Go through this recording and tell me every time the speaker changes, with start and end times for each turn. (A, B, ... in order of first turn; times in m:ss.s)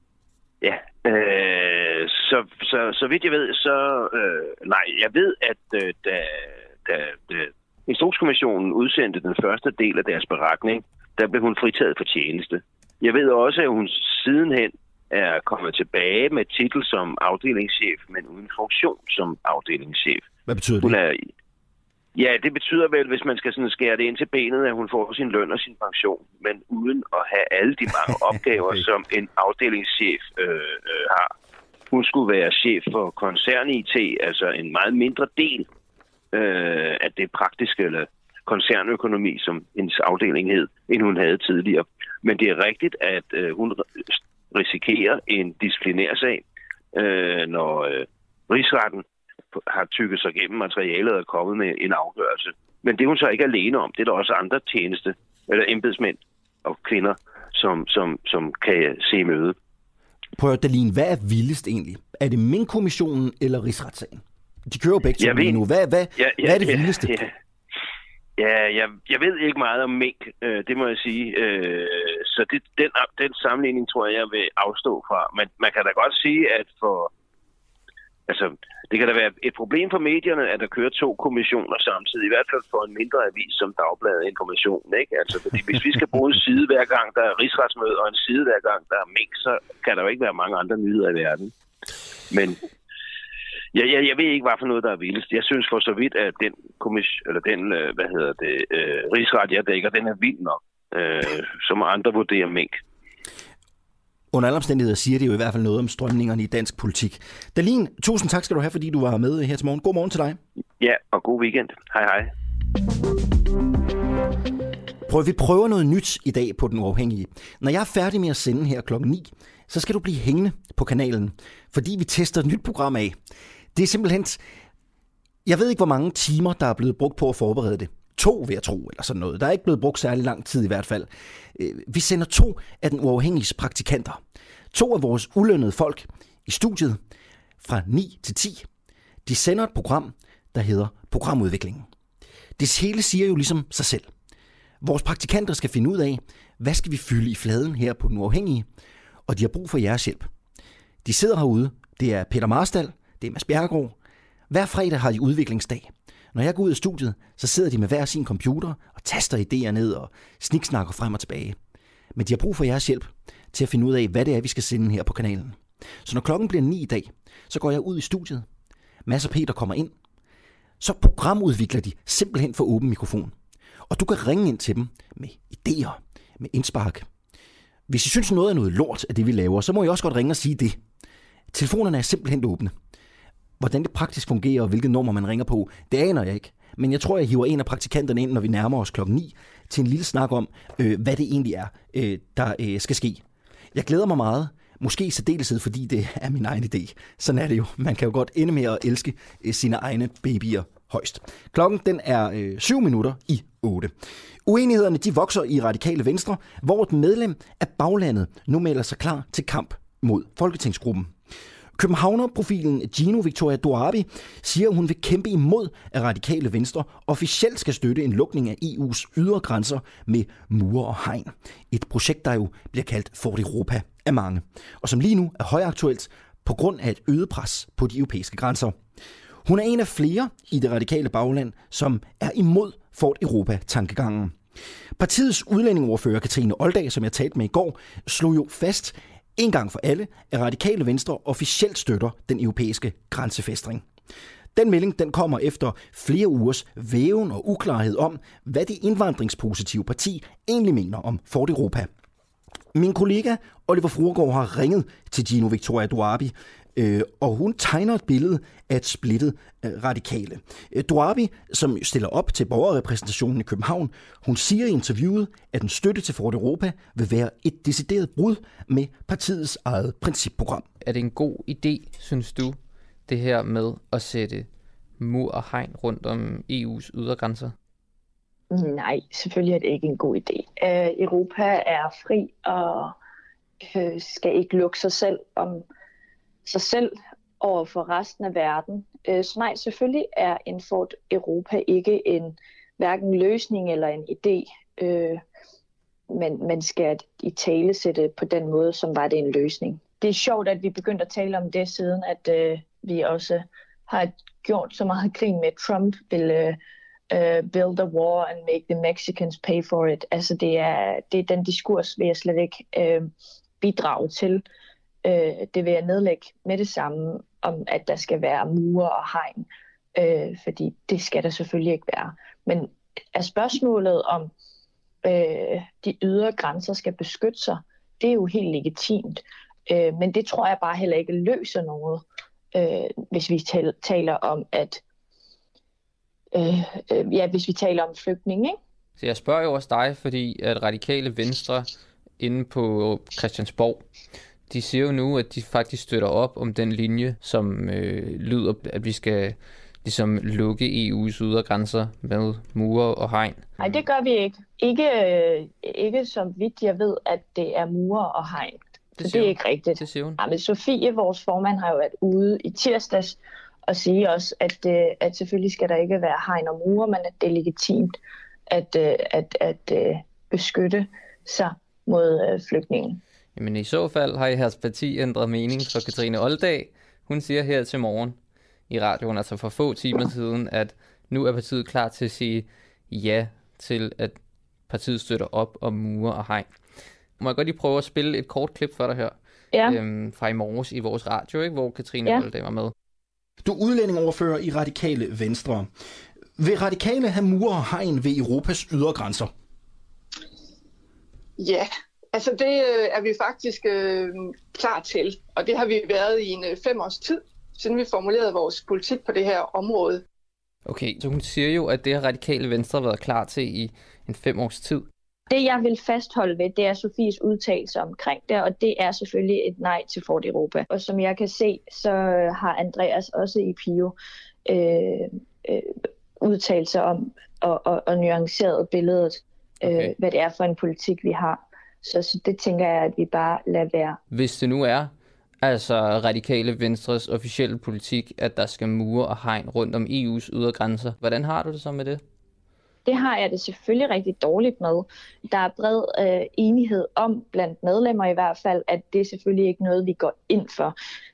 0:00.6-0:20.2 A
0:20.5-0:21.0 B
0:20.8-0:21.2 A
0:22.2-0:31.3 A
0:31.9-0:35.7 A
0:36.3-0:43.8 A
0:44.5-0:46.4 A
0:47.0-0:49.0 A
0:49.6-0:59.6 A
1:00.4-1:07.2 B
1:05.2-1:05.6 A
1:06.2-1:07.3 A
1:08.4-1:17.1 A
1:18.3-1:31.5 A
1:32.3-1:32.6 A
1:33.7-1:42.8 A
1:44.3-1:50.4 B
1:50.8-1:52.3 A
1:55.1-2:03.2 B
2:03.7-2:04.4 B
2:05.4-2:14.2 B
2:14.7-2:17.0 B
2:17.6-2:18.7 B
2:19.2-2:21.9 B
2:22.6-2:24.1 B
2:24.8-2:28.7 B
2:29.3-2:30.3 B
2:31.0-2:34.0 B
2:34.5-2:41.6 B
2:42.2-2:48.4 B
2:49.1-2:49.9 B
2:50.8-2:53.4 B
2:53.9-2:57.1 B
2:57.9-3:00.8 B
3:01.5-3:02.7 B
3:03.6-3:13.2 B
3:13.7-3:23.9 B
3:24.5-3:31.1 B
3:31.8-3:48.8 B
3:49.4-3:54.4 B
3:55.0-4:03.8 B
4:04.6-4:11.9 B
4:12.7-4:30.6 B
4:30.8-4:37.5 C
4:38.5-4:42.9 D
4:43.7-4:45.6 D
4:46.5-4:55.2 D
4:56.1-5:06.6 D
5:07.1-5:13.1 D
5:13.6-5:14.4 D
5:15.0-5:19.4 D
5:20.0-5:24.3 D
5:25.0-5:32.0 D
5:32.5-5:34.8 D
5:36.3-5:38.6 D
5:39.0-5:41.7 C
5:42.2-5:43.8 C
5:44.5-5:53.8 C
5:53.6-6:08.0 D
5:59.0-6:00.2 C
6:08.5-6:13.0 D
6:13.4-6:18.2 C
6:18.7-6:24.2 C
6:24.7-6:26.5 C
6:27.2-6:32.7 C
6:33.4-6:35.7 B
6:36.4-6:39.3 B
6:41.4-6:50.0 E
6:50.7-6:54.9 C
6:55.3-7:03.9 D
7:04.5-7:14.0 D
7:09.6-7:09.9 C
7:14.1-7:22.0 C
7:22.9-7:30.7 D